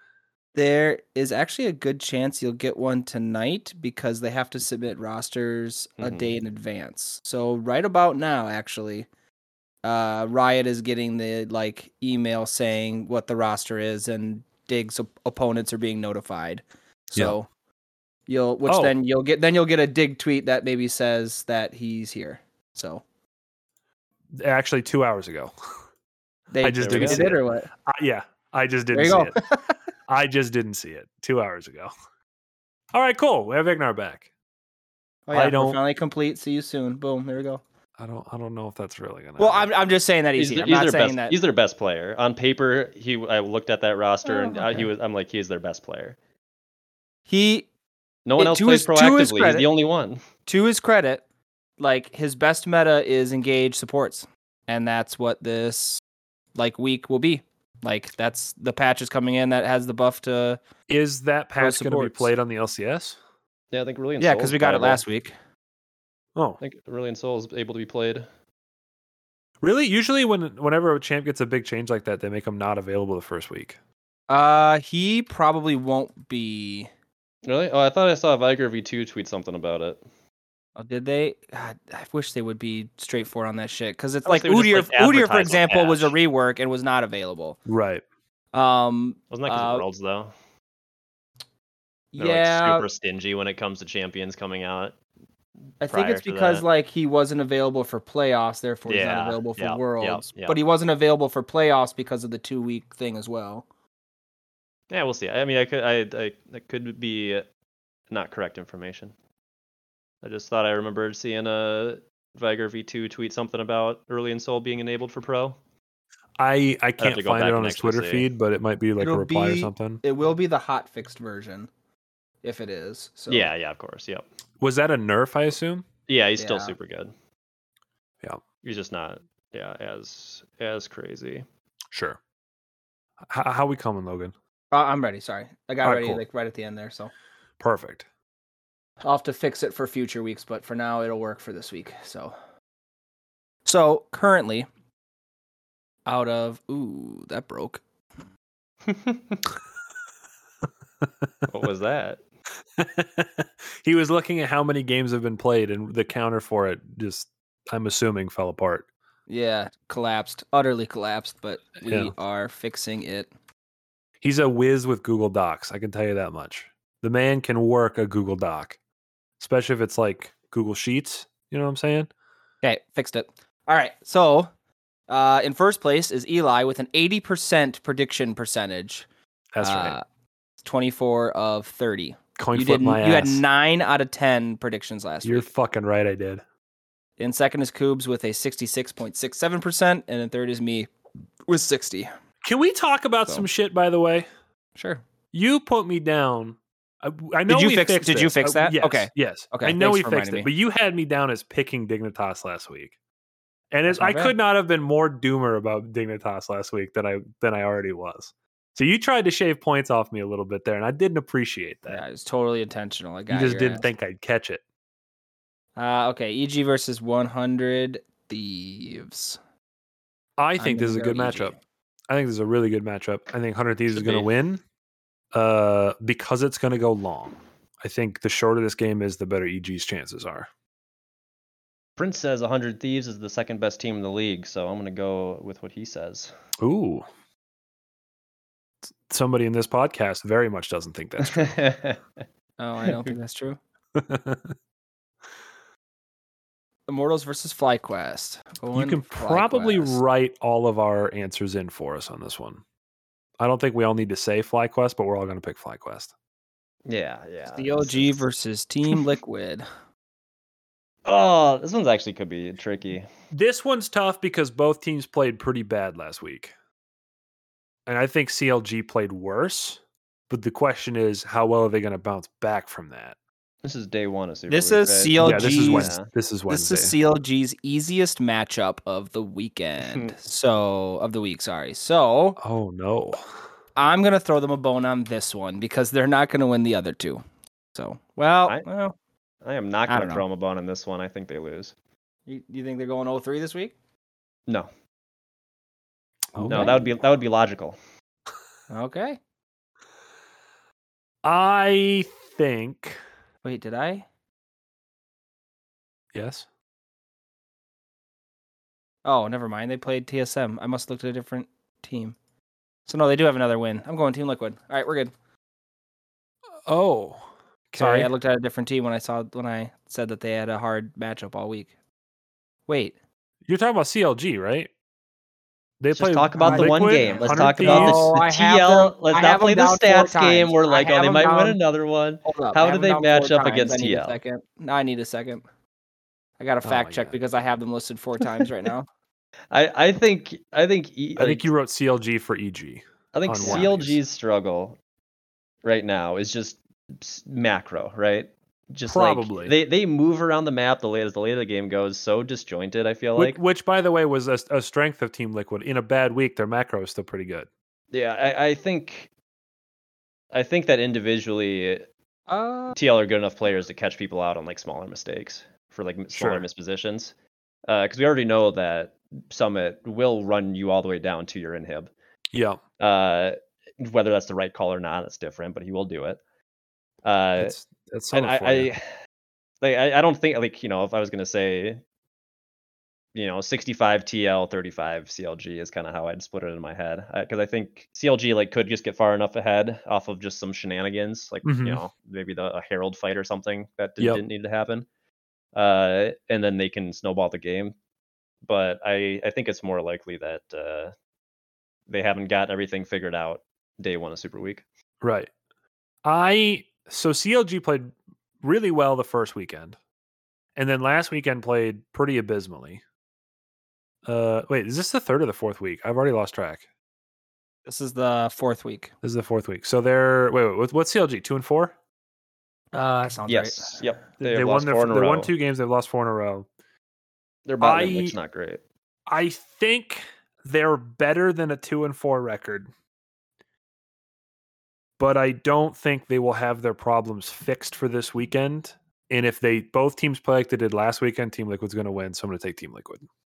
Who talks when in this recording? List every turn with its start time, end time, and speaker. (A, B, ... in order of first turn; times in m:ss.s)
0:00.6-0:09.1 A
0:06.0-0:06.3 B
0:09.8-0:17.5 A
0:18.3-0:23.0 A
0:18.7-0:18.9 C
0:24.3-0:25.6 C
0:26.5-0:27.7 A
0:26.6-0:29.4 C
0:26.9-0:27.3 B
0:28.9-0:29.8 A
0:30.1-0:31.9 C
0:32.9-0:34.3 C
0:35.3-0:37.6 A
0:35.3-0:35.8 C
0:38.0-0:39.7 C
0:39.4-0:41.4 A
0:40.4-0:46.2 B
0:44.2-0:44.9 A
0:47.3-0:47.7 A
0:48.3-0:50.2 B
0:48.4-0:49.7 A
0:50.5-0:51.2 A
0:51.8-0:56.0 A
0:56.6-1:00.6 A
1:00.9-1:03.2 C
1:01.6-1:02.3 A
1:03.7-1:05.0 B
1:04.2-1:05.3 A
1:06.6-1:08.3 B
1:09.6-1:13.8 C
1:14.3-1:16.9 A
1:17.4-1:20.0 B
1:20.8-1:27.6 A
1:24.2-1:26.1 B
1:27.7-1:28.0 C
1:28.5-1:29.8 A
1:29.3-1:30.3 B
1:32.1-1:32.9 A
1:32.2-1:35.0 B
1:35.8-1:43.6 A
1:35.9-1:36.6 B
1:38.9-1:40.6 B
1:44.9-1:47.5 B
1:48.1-1:49.1 B
1:50.2-1:55.6 B
1:56.4-2:00.0 C
1:57.0-1:58.3 B
1:59.0-2:01.7 A
2:02.4-2:03.5 A
2:03.3-2:04.2 B
2:04.6-2:05.9 C
2:06.1-2:07.1 B
2:06.4-2:06.7 A
2:08.6-2:11.5 B
2:11.9-2:12.2 C
2:13.3-2:14.3 C
2:14.7-2:17.1 A
2:15.8-2:16.2 C
2:17.6-2:18.1 C
2:19.0-2:22.3 A
2:23.6-2:24.7 A
2:26.1-2:27.8 A
2:28.9-2:29.4 B
2:31.5-2:32.2 B
2:32.8-2:38.9 C
2:39.3-2:43.3 A
2:41.8-2:42.1 C
2:44.2-2:48.8 C
2:49.4-2:52.1 C
2:52.6-2:54.5 A
2:55.1-2:59.1 A
2:59.5-3:00.0 C
2:59.6-3:00.0 A
3:00.6-3:05.5 A
3:02.4-3:03.4 C
3:05.2-3:06.4 C
3:07.2-3:10.9 A
3:11.5-3:12.1 A
3:12.4-3:14.3 C
3:14.8-3:15.0 A
3:15.3-3:22.9 C
3:17.5-3:20.5 A
3:23.7-3:32.0 C
3:23.9-3:24.3 A
3:31.9-3:33.9 A
3:33.3-3:34.6 C
3:35.8-3:39.4 A
3:40.4-3:41.6 C
3:40.6-3:41.6 A
3:42.1-3:44.6 C
3:43.9-3:44.3 B
3:45.3-3:50.5 C
3:52.0-3:56.3 B
3:56.6-3:57.1 C
3:59.1-4:01.5 C
4:01.2-4:02.0 B
4:02.6-4:03.6 A
4:04.0-4:04.6 C
4:06.9-4:10.0 A
4:08.7-4:12.6 C
4:13.4-4:16.1 C
4:16.9-4:18.2 B
4:17.5-4:19.7 A
4:21.0-4:23.1 B
4:23.3-4:26.5 C
4:27.9-4:33.2 C
4:33.6-4:36.1 B
4:34.5-4:36.0 A
4:35.2-4:37.0 C
4:36.5-4:42.4 A
4:42.4-4:43.2 C
4:43.8-4:47.2 A
4:47.8-4:49.0 A
4:49.4-4:51.7 B
4:49.9-4:50.2 A
4:52.3-4:53.7 A
4:56.3-4:56.8 C
4:56.4-4:56.9 A
4:56.5-4:57.8 B
4:58.7-4:59.2 A
5:01.2-5:03.0 C
5:03.4-5:04.1 A
5:06.1-5:06.5 C
5:09.0-5:12.2 A
5:12.9-5:15.1 A
5:16.7-5:18.1 C
5:17.8-5:21.7 A
5:22.7-5:23.0 A
5:23.5-5:24.7 C
5:25.8-5:28.1 C
5:25.9-5:34.2 B
5:26.4-5:31.6 A
5:32.2-5:35.4 A
5:36.4-5:38.9 A
5:36.6-5:37.2 C
5:39.5-5:41.5 B
5:41.2-5:44.0 C
5:43.1-5:44.8 B
5:45.6-5:53.4 B
5:48.9-5:49.5 C
5:53.2-5:57.5 C
5:57.9-5:59.1 B
6:00.3-6:01.9 B
6:02.3-6:02.8 A
6:02.7-6:07.1 B
6:06.1-6:06.5 C
6:07.7-6:11.9 B
6:12.3-6:12.6 C
6:12.8-6:16.2 B
6:17.0-6:17.6 B
6:17.4-6:18.7 C
6:18.1-6:18.9 B
6:19.6-6:21.8 B
6:23.2-6:34.9 B
6:31.4-6:31.8 C
6:35.5-6:37.8 B
6:38.5-6:40.9 B
6:41.9-6:44.6 B
6:45.0-6:45.3 C
6:46.0-6:49.8 C
6:50.6-6:52.8 C
6:54.0-6:56.6 C
6:57.7-6:58.9 A
6:59.0-7:01.8 C
7:02.7-7:03.8 A
7:03.3-7:05.3 B
7:04.2-7:06.5 C
7:07.5-7:08.6 B
7:07.6-7:08.2 C
7:09.1-7:12.7 C
7:15.0-7:23.0 C